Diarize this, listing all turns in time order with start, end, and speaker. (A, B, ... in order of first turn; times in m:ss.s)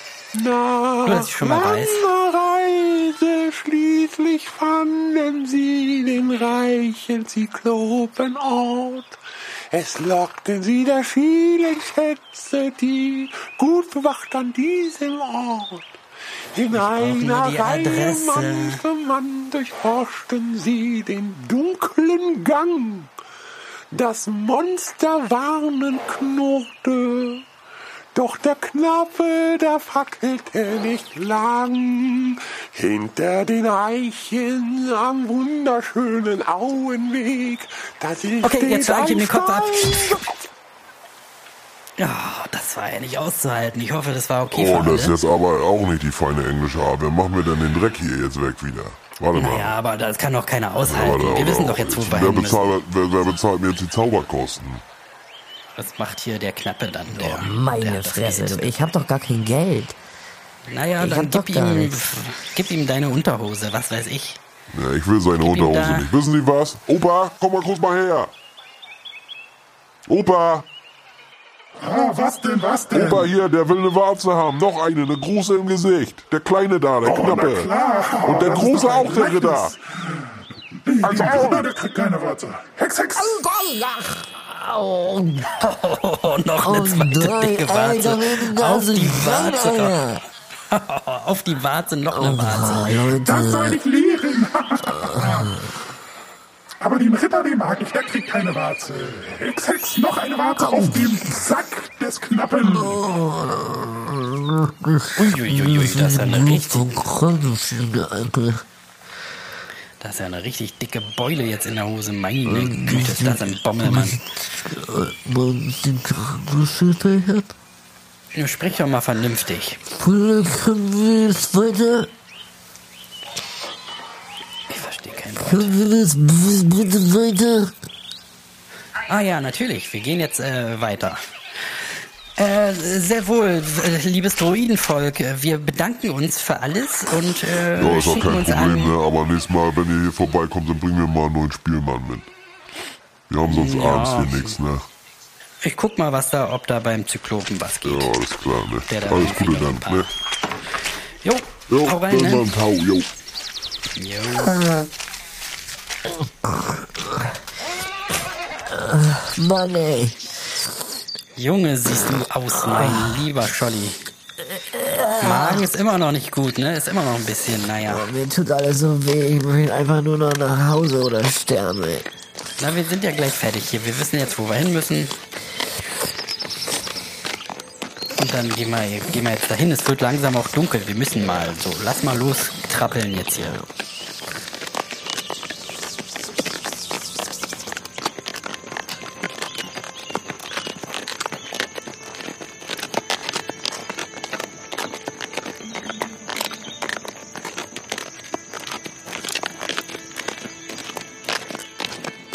0:00.3-0:16.0 A
0:01.0-0:02.0 B
0:16.5-0:23.1 A
0:16.7-0:18.8 B
0:23.9-0:27.4 A
0:28.1-0:40.4 A
0:38.4-0:40.2 B
0:42.0-0:45.2 B
0:44.5-0:49.7 C
0:49.3-0:52.8 B
0:50.9-0:54.8 C
0:55.8-0:58.7 B
0:57.1-1:00.0 D
1:00.7-1:04.4 B
1:01.0-1:02.2 D
1:04.7-1:08.3 C
1:05.4-1:06.2 B
1:10.1-1:10.6 C
1:11.8-1:13.3 E
1:12.9-1:17.7 C
1:17.0-1:20.3 E
1:18.2-1:19.7 C
1:20.8-1:23.4 E
1:21.0-1:21.6 C
1:23.2-1:25.6 D
1:25.6-1:30.0 B
1:26.6-1:30.2 D
1:30.7-1:33.0 B
1:32.1-1:33.8 D
1:33.1-1:35.6 E
1:34.9-1:35.7 D
1:36.8-1:43.0 E
1:40.6-1:41.4 D
1:42.7-1:48.6 D
1:45.2-1:47.1 B
1:50.0-1:54.2 B
1:52.4-1:57.5 D
1:58.3-1:59.8 B
1:59.9-2:02.1 D
2:04.7-2:05.7 B
2:05.4-2:07.7 D
2:09.1-2:19.0 B
2:17.8-2:22.3 C
2:23.3-2:24.8 C
2:23.4-2:24.6 B
2:25.6-2:28.2 B
2:27.8-2:30.0 C
2:28.9-2:30.1 B
2:31.2-2:32.5 B
2:31.7-2:33.0 C
2:33.9-2:34.6 B
2:34.4-2:34.9 D
2:36.0-2:37.3 D
2:38.6-2:40.2 D
2:41.4-2:44.0 B
2:42.6-2:43.2 D
2:44.4-2:45.7 D
2:45.2-2:48.0 B
2:47.8-2:52.1 D
2:52.6-2:55.1 B
2:58.2-3:03.6 B
3:03.3-3:03.6 D